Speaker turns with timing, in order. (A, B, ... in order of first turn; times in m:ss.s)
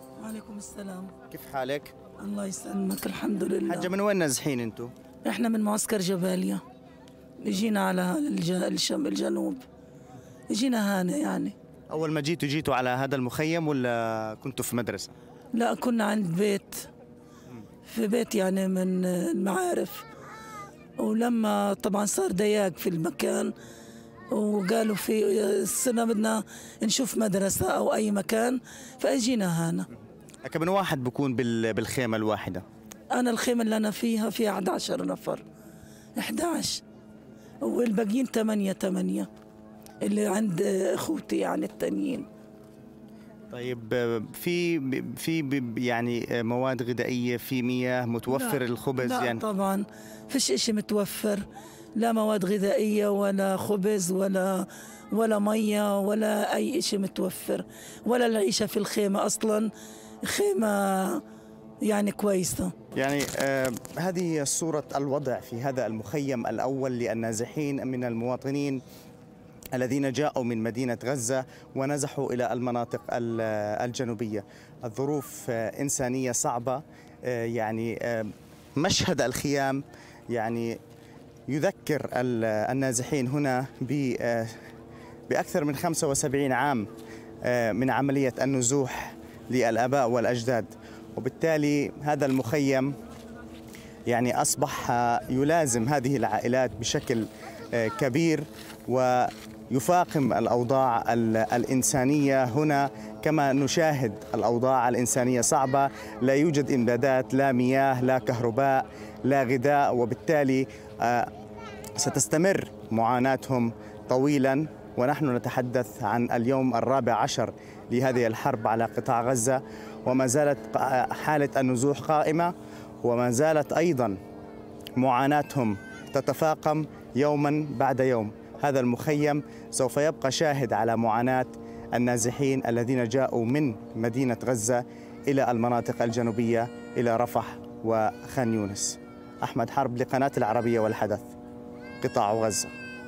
0:00.2-0:01.1 A
0:01.3-0:01.9 B
0:02.2-0:03.9 A
0:03.6-0:04.9 B
0:05.2-0:06.6 A
0:07.4-0:09.6 A
0:10.5-0:11.5 A
0:11.9-0:15.1 B
0:15.5-0:16.9 A
0:17.8-0:20.0 A
0:21.0-0:23.5 A
0:24.3-0:29.9 A
0:30.4-0:32.6 B
0:33.1-0:35.4 A
0:36.2-0:36.8 A
0:37.6-0:39.3 A
0:40.0-0:42.3 A
0:43.5-0:49.4 B
0:48.3-0:51.4 A
0:52.0-0:59.7 A
1:00.2-1:01.2 A
1:01.8-1:02.7 A
1:03.0-1:08.8 B
1:09.7-1:20.8 B
1:21.5-1:24.6 B
1:25.3-1:26.9 B
1:27.4-1:32.9 B
1:34.1-1:51.3 B
1:52.0-2:04.2 B
2:05.0-2:21.3 B
2:22.0-2:22.7 B